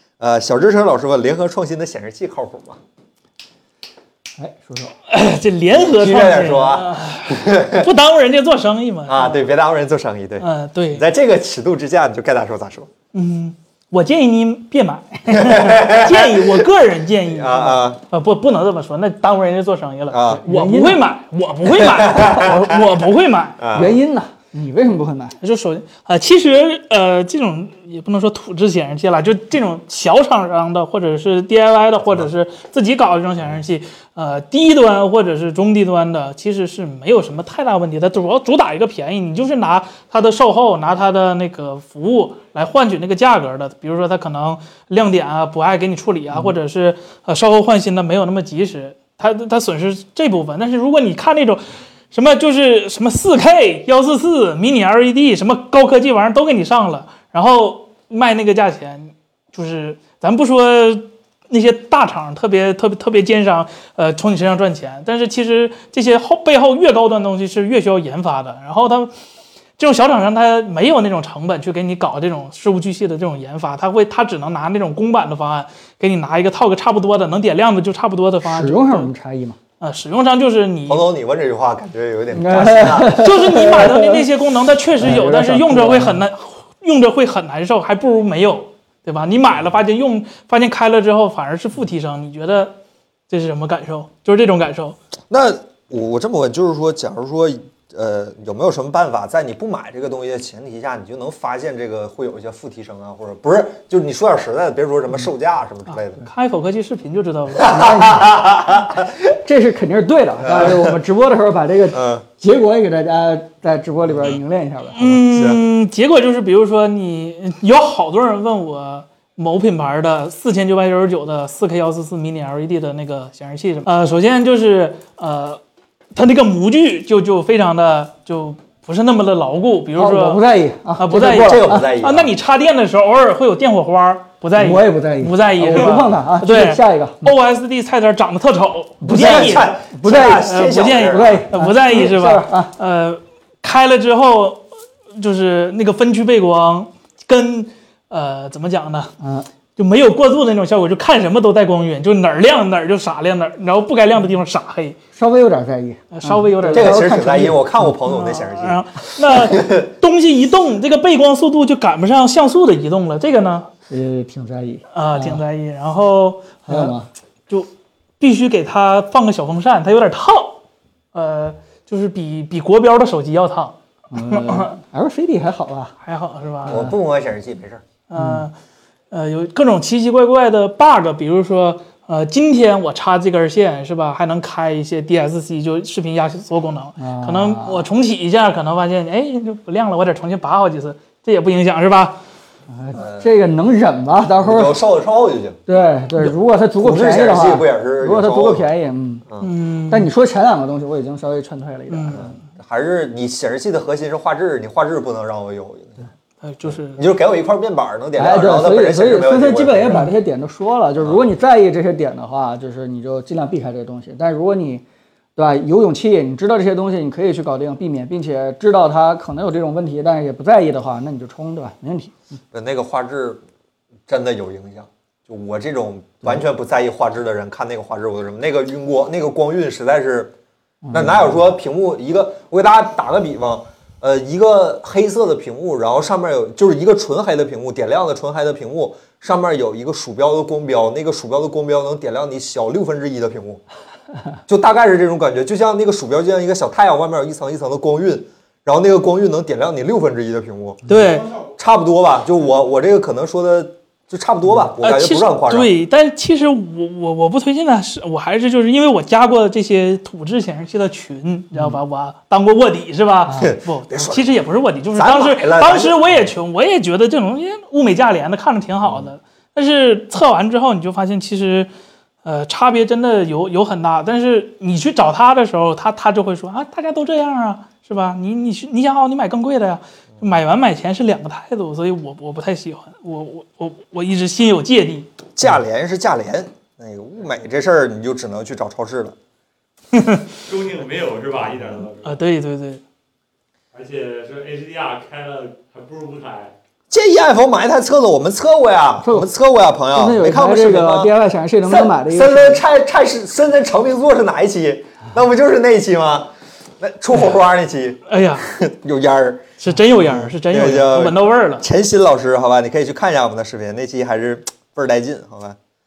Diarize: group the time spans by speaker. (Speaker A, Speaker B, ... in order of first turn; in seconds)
Speaker A: 0.2-2.8, 5.7-7.9, 9.1-12.9, 15.3-16.7, 17.2-18.0, 20.1-20.4, 21.7-22.8, 23.6-23.9, 80.8-83.3, 95.3-106.2, 107.6-109.1, 110.4-111.0, 111.9-112.2, 115.0-115.6, 131.2-132.3, 139.1-141.5, 156.7-159.8, 176.7-177.8, 192.9-193.3, 194.4-195.6, 196.8-198.7, 202.1-206.1, 206.6-210.1, 222.5-223.4, 224.1-230.3, 230.9-243.6, 244.5-250.8, 251.6-255.8, 263.4-264.3, 264.9-266.3, 268.8-269.1, 285.4-289.1, 296.9-301.1, 301.6-315.6
Speaker B: 4.4-4.9, 20.3-21.0, 23.7-25.4, 78.4-79.6, 82.3-84.2, 85.0-86.2, 107.6-108.6, 109.3-115.0, 130.0-131.9, 134.6-137.3, 139.0-142.7, 149.2-149.5, 155.1-157.7, 163.9-165.4, 166.7-167.1, 174.1-175.9, 176.7-176.9, 178.2-178.4, 187.0-187.8, 192.7-194.8, 195.7-199.2, 199.9-202.4, 208.2-214.8, 215.3-222.2, 230.8-231.3, 299.0-299.3, 299.9-302.6
Speaker C: 5.1-9.3, 10.4-11.0, 13.1-23.7, 25.4-69.1, 69.8-79.1, 79.8-81.0, 83.2-92.8, 93.3-95.0, 105.9-107.8, 115.0-125.6, 126.1-130.4, 131.0-139.7, 140.4-149.1, 149.8-155.0, 156.1-157.1, 158.0-163.7, 164.9-166.9, 168.2-170.6, 171.1-174.8, 176.0-176.8, 178.1-178.5, 179.1-192.2, 199.4-200.1, 201.9-202.3, 206.4-207.0, 250.9-251.3, 254.8-271.7, 272.2-285.1, 289.9-290.2, 292.0-292.8, 308.1-308.5, 309.6-311.6
Speaker D: 290.4-292.2, 293.7-296.5